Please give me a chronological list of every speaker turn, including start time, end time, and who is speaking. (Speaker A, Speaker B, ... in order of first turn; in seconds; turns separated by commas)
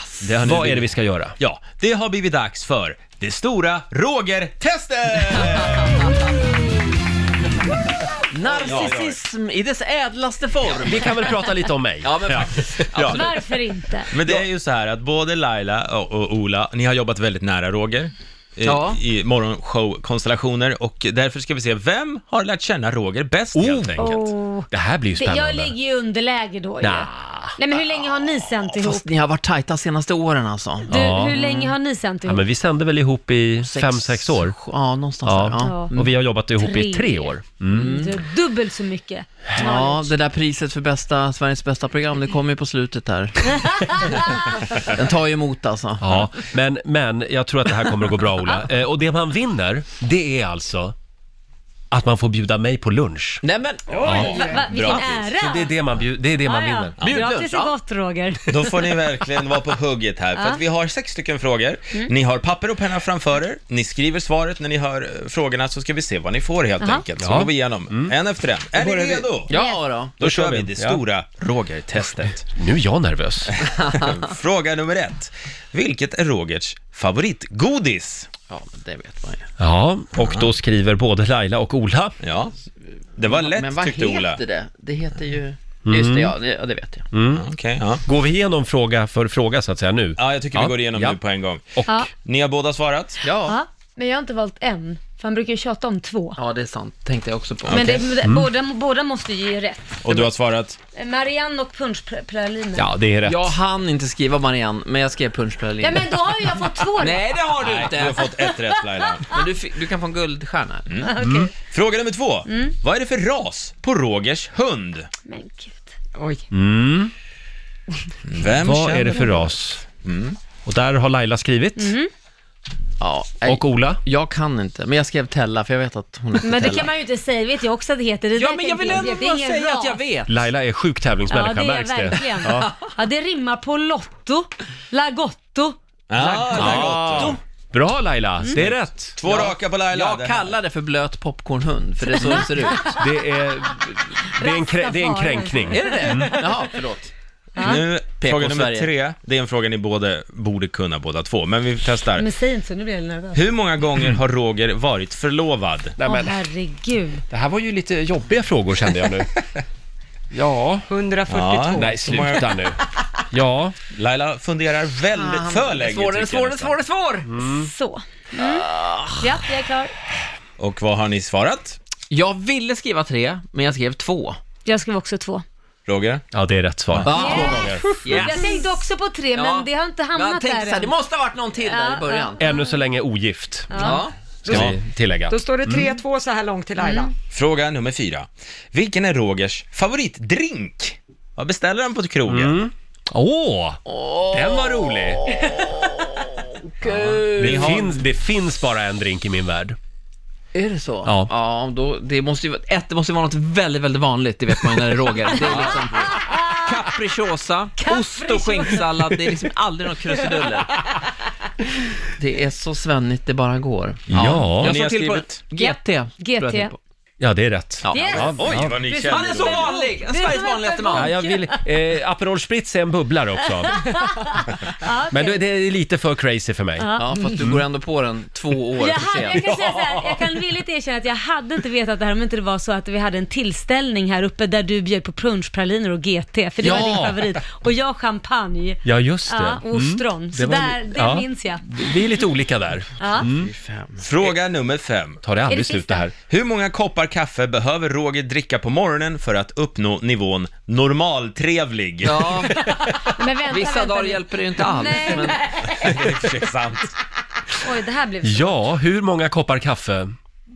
Speaker A: 0.2-1.4, Speaker B: 0.4-6.2, Speaker C: 8.3-11.4, Speaker B: 8.5-9.2, Speaker A: 10.8-12.5, Speaker C: 12.0-13.4, Speaker B: 12.3-13.2, Speaker D: 13.1-14.1, Speaker B: 14.1-24.2, Speaker C: 18.6-19.0, Speaker A: 23.6-25.7, Speaker D: 24.0-29.1, Speaker A: 26.8-27.6, Speaker C: 28.8-31.7, Speaker D: 30.9-32.4, Speaker A: 30.9-31.4, Speaker A: 32.3-34.5, Speaker C: 33.6-36.1, Speaker A: 35.2-38.0, Speaker D: 35.6-35.9, Speaker D: 36.6-40.1, Speaker C: 37.7-38.2, Speaker C: 39.6-44.1, Speaker D: 43.6-44.7, Speaker C: 44.7-46.3, Speaker A: 46.0-51.0, Speaker A: 51.9-53.4, Speaker C: 53.4-54.0, Speaker A: 54.0-54.4, Speaker D: 54.0-55.8, Speaker E: 54.0-54.6, Speaker B: 54.1-55.3, Speaker A: 55.3-57.0, Speaker D: 56.4-58.8, Speaker C: 57.0-57.8, Speaker B: 58.5-69.5, Speaker D: 60.4-60.6, Speaker D: 66.8-67.1, Speaker A: 67.2-68.1, Speaker C: 68.8-70.2, Speaker D: 69.5-69.8, Speaker B: 70.2-72.5, Speaker A: 70.2-71.0, Speaker A: 72.5-73.6, Speaker B: 73.9-78.3, Speaker C: 78.5-79.5, Speaker A: 79.6-82.2, Speaker B: 80.2-80.5, Speaker B: 82.2-82.5, Speaker B: 83.2-84.4, Speaker C: 83.3-87.1, Speaker A: 85.9-86.3, Speaker A: 87.1-87.5, Speaker B: 87.3-88.0, Speaker A: 88.0-91.2, Speaker B: 90.2-93.2, Speaker A: 91.7-92.1, Speaker C: 93.2-93.6, Speaker D: 93.4-96.4, Speaker C: 96.4-98.1, Speaker B: 97.7-98.0, Speaker D: 97.7-100.2, Speaker B: 100.0-100.8, Speaker D: 100.9-102.9, Speaker A: 102.8-103.6, Speaker C: 103.2-106.2, Speaker D: 105.8-107.4, Speaker C: 107.0-108.3, Speaker B: 107.5-109.3, Speaker D: 108.2-109.4, Speaker C: 109.3-110.9, Speaker D: 111.0-111.5, Speaker A: 111.2-111.5, Speaker B: 111.7-115.1, Speaker D: 112.5-112.7, Speaker D: 115.3-116.0, Speaker E: 116.2-116.4, Speaker A: 116.5-117.1, Speaker B: 118.2-120.4, Speaker A: 118.5-119.8, Speaker A: 120.7-122.0, Speaker D: 121.8-122.1, Speaker C: 123.0-126.9, Speaker A: 123.5-124.0, Speaker D: 126.4-130.0, Speaker C: 128.3-130.4, Speaker A: 130.3-132.7, Speaker D: 131.3-135.8, Speaker B: 136.1-137.4, Speaker C: 136.2-137.4, Speaker A: 136.5-139.2, Speaker B: 138.6-140.4, Speaker C: 139.2-143.0, Speaker D: 142.1-143.0, Speaker A: 142.8-146.4, Speaker D: 144.3-146.5, Speaker C: 145.7-147.1, Speaker D: 147.6-147.8, Speaker B: 147.6-152.3, Speaker C: 148.1-148.9, Speaker D: 152.2-153.5, Speaker B: 153.3-155.9, Speaker A: 156.0-156.4, Speaker D: 156.1-157.2, Speaker A: 157.3-159.3, Speaker A: 160.3-160.9, Speaker E: 160.9-162.3, Speaker B: 161.3-162.6, Speaker A: 161.7-162.8, Speaker A: 163.3-163.8, Speaker B: 163.9-166.8, Speaker C: 165.1-167.3, Speaker A: 167.3-167.7, Speaker D: 167.4-168.7, Speaker C: 168.4-169.3, Speaker D: 169.2-169.9, Speaker B: 170.6-171.8, Speaker C: 172.1-174.4, Speaker D: 174.7-175.4, Speaker B: 175.9-176.2, Speaker A: 176.3-177.5, Speaker B: 176.9-177.8, Speaker C: 177.0-178.8, Speaker D: 177.1-180.9, Speaker C: 179.3-182.4, Speaker D: 181.6-182.8, Speaker A: 182.4-185.9, Speaker D: 183.7-184.0, Speaker C: 183.8-184.1, Speaker B: 184.5-184.8, Speaker E: 185.3-187.1, Speaker D: 186.8-187.1, Speaker B: 187.3-192.6, Speaker A: 192.3-193.8, Speaker C: 193.9-197.9, Speaker A: 194.3-195.3, Speaker A: 196.9-199.8, Speaker B: 197.2-198.0, Speaker C: 200.5-210.8, Speaker A: 201.1-201.3, Speaker D: 205.5-206.7, Speaker D: 207.8-209.4, Speaker D: 210.1-210.5, Speaker C: 212.1-216.8, Speaker B: 214.1-215.4, Speaker A: 214.2-214.8, Speaker D: 215.6-216.7, Speaker A: 217.2-218.8, Speaker C: 217.8-221.1, Speaker D: 217.9-221.7, Speaker B: 218.4-219.7, Speaker E: 218.9-219.9, Speaker A: 220.9-223.8, Speaker D: 223.6-225.5, Speaker A: 225.1-226.9, Speaker D: 226.8-227.3, Speaker C: 227.0-229.5, Speaker D: 228.8-242.0, Speaker A: 229.4-230.3, Speaker A: 236.6-237.3, Speaker A: 238.8-243.5, Speaker D: 243.0-243.3, Speaker C: 243.2-244.1, Speaker B: 244.0-245.2, Speaker A: 245.2-246.1, Speaker D: 245.5-246.1, Speaker B: 246.2-252.5, Speaker C: 252.0-252.6, Speaker D: 252.6-256.1, Speaker C: 253.5-255.8, Speaker B: 255.8-256.9, Speaker D: 257.6-258.6, Speaker A: 258.2-260.1